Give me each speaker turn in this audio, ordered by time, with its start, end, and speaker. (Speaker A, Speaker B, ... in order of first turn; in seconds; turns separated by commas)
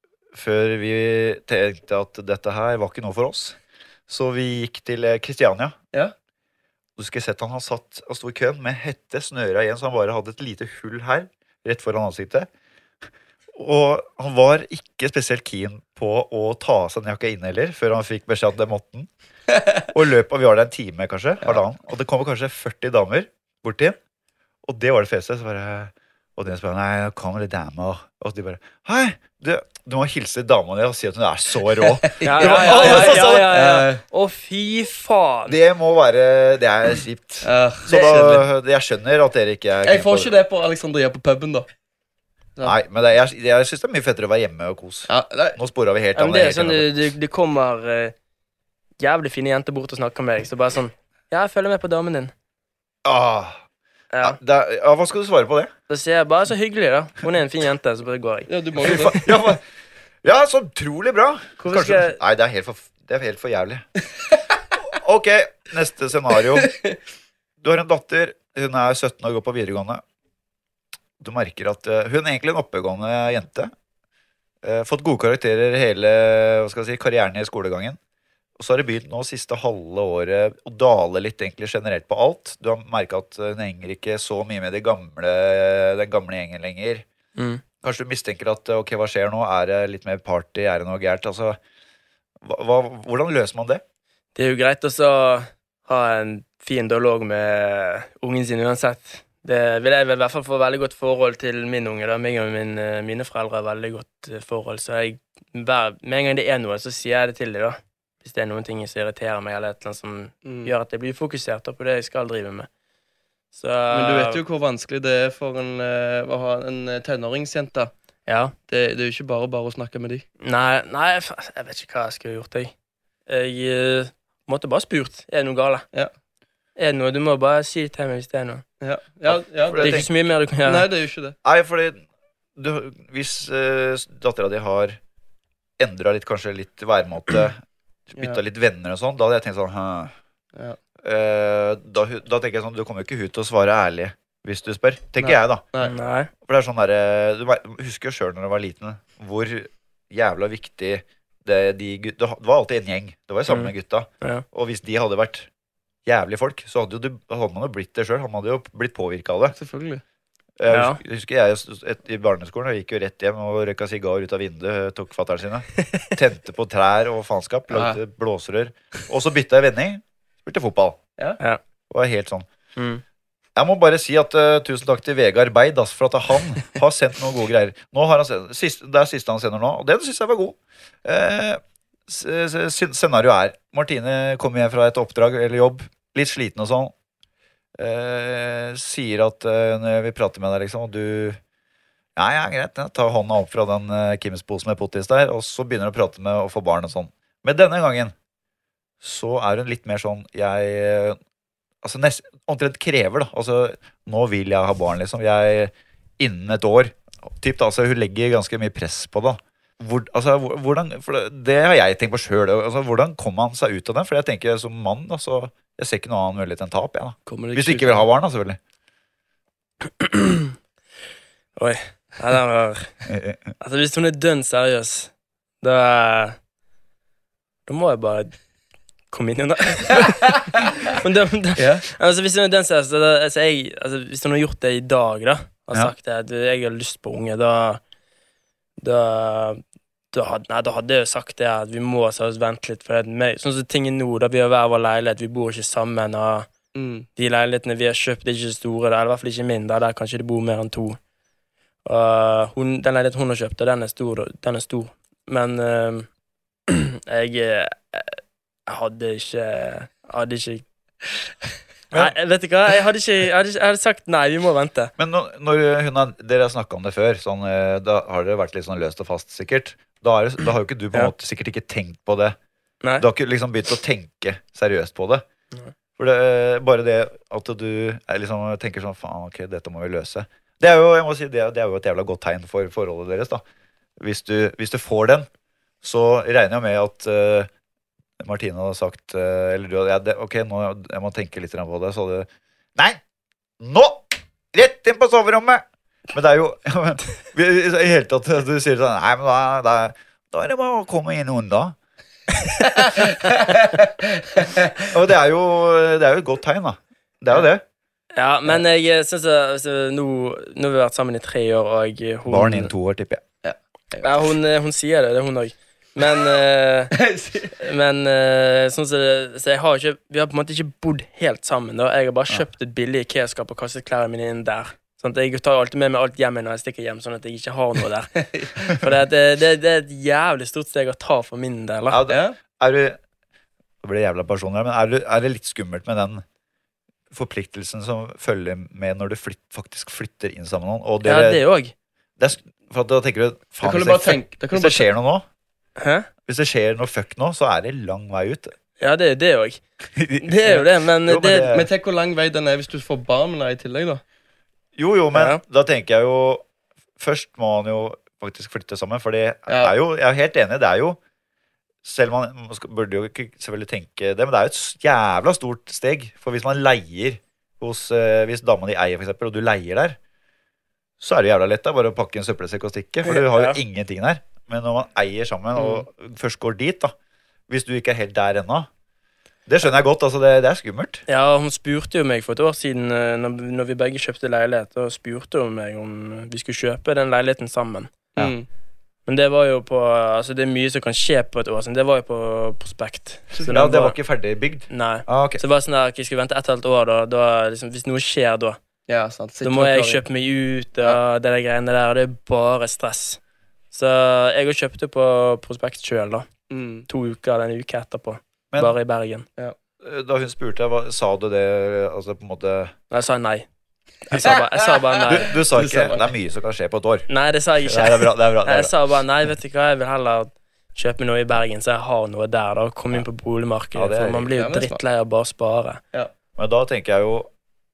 Speaker A: 0.3-5.8, Speaker A: 7.0-12.5, Speaker A: 13.5-19.1, Speaker B: 19.5-19.8, Speaker A: 19.9-24.0, Speaker A: 24.6-33.6, Speaker B: 31.8-34.0, Speaker C: 32.2-35.6, Speaker A: 35.5-40.3, Speaker B: 37.4-38.5, Speaker B: 39.8-41.7, Speaker A: 42.6-46.9, Speaker B: 45.1-45.6, Speaker C: 46.1-48.1, Speaker C: 49.0-52.3, Speaker A: 53.0-53.6, Speaker C: 54.1-54.4, Speaker A: 54.2-55.7, Speaker C: 55.9-59.3, Speaker B: 58.5-59.2, Speaker A: 58.8-59.6, Speaker A: 60.2-63.9, Speaker C: 61.6-62.2, Speaker A: 64.8-66.7, Speaker B: 66.5-67.0, Speaker A: 67.6-70.0, Speaker A: 71.2-73.7, Speaker A: 74.6-78.0, Speaker A: 78.6-87.0, Speaker C: 87.4-87.6, Speaker A: 87.8-91.6, Speaker A: 92.4-93.8, Speaker C: 94.3-112.7, Speaker B: 110.4-110.7, Speaker C: 113.5-114.4, Speaker B: 113.9-117.9, Speaker C: 118.3-118.5, Speaker B: 118.7-120.2, Speaker C: 120.4-122.7, Speaker C: 123.3-125.8, Speaker C: 126.8-128.6, Speaker B: 128.8-130.0, Speaker A: 129.3-130.1, Speaker C: 129.8-130.9, Speaker B: 130.7-131.4, Speaker A: 131.4-132.0, Speaker A: 132.6-135.0, Speaker A: 135.8-140.2, Speaker A: 141.0-145.7, Speaker B: 145.2-145.9, Speaker C: 145.8-146.3, Speaker A: 146.4-155.5, Speaker C: 153.5-154.4, Speaker A: 156.1-159.6, Speaker B: 159.6-160.0, Speaker A: 160.6-171.0, Speaker C: 160.7-161.0, Speaker B: 167.7-168.0, Speaker A: 171.9-172.5, Speaker C: 172.8-173.0, Speaker A: 173.6-186.9, Speaker A: 187.8-191.4, Speaker A: 192.2-198.1, Speaker A: 199.0-201.2, Speaker A: 201.8-218.6, Speaker B: 217.3-218.1, Speaker C: 220.0-220.5, Speaker C: 221.6-223.0, Speaker A: 223.1-223.4, Speaker C: 223.6-226.4, Speaker C: 227.7-228.3, Speaker C: 229.1-237.8, Speaker B: 231.6-231.9, Speaker C: 238.8-246.5, Speaker B: 246.7-247.1, Speaker C: 247.2-251.0, Speaker C: 251.8-256.1, Speaker C: 256.7-260.7, Speaker C: 261.9-264.9, Speaker A: 265.0-272.4, Speaker A: 273.0-275.2, Speaker A: 276.0-283.4, Speaker A: 284.0-285.3, Speaker A: 285.8-287.5, Speaker A: 288.2-293.0, Speaker A: 293.6-301.8, Speaker B: 302.7-304.9, Speaker A: 304.9-307.6, Speaker C: 308.2-312.7, Speaker A: 312.3-313.2, Speaker B: 313.4-314.1, Speaker C: 314.0-316.9, Speaker B: 316.9-317.6, Speaker C: 317.6-332.0, Speaker B: 328.3-328.7, Speaker A: 331.9-333.0, Speaker B: 332.1-332.4, Speaker A: 333.8-336.2, Speaker A: 337.1-341.4, Speaker C: 341.0-341.7, Speaker A: 342.2-345.2, Speaker B: 343.6-344.9, Speaker C: 345.8-346.1, Speaker A: 346.3-348.5, Speaker C: 348.8-349.6, Speaker A: 349.9-351.7, Speaker C: 350.2-351.5, Speaker B: 351.5-354.0, Speaker A: 354.8-356.4, Speaker C: 355.1-355.4, Speaker A: 357.0-361.0, Speaker B: 359.5-359.7, Speaker A: 361.8-370.0, Speaker A: 371.0-376.9, Speaker C: 373.0-373.6, Speaker A: 377.5-378.7, Speaker A: 379.5-381.1, Speaker C: 381.1-387.9, Speaker B: 388.2-388.5, Speaker C: 389.1-394.0, Speaker A: 393.5-395.4, Speaker C: 394.7-398.6, Speaker B: 398.9-400.0, Speaker C: 399.4-403.2, Speaker C: 403.7-406.3, Speaker B: 406.5-406.9, Speaker C: 406.9-409.2, Speaker A: 409.8-412.7, Speaker C: 412.9-413.5, Speaker C: 414.1-415.3, Speaker B: 414.1-416.1, Speaker A: 415.1-417.1, Speaker C: 417.1-425.8, Speaker A: 417.6-418.7, Speaker A: 423.8-424.3, Speaker B: 424.4-424.8, Speaker A: 426.4-427.3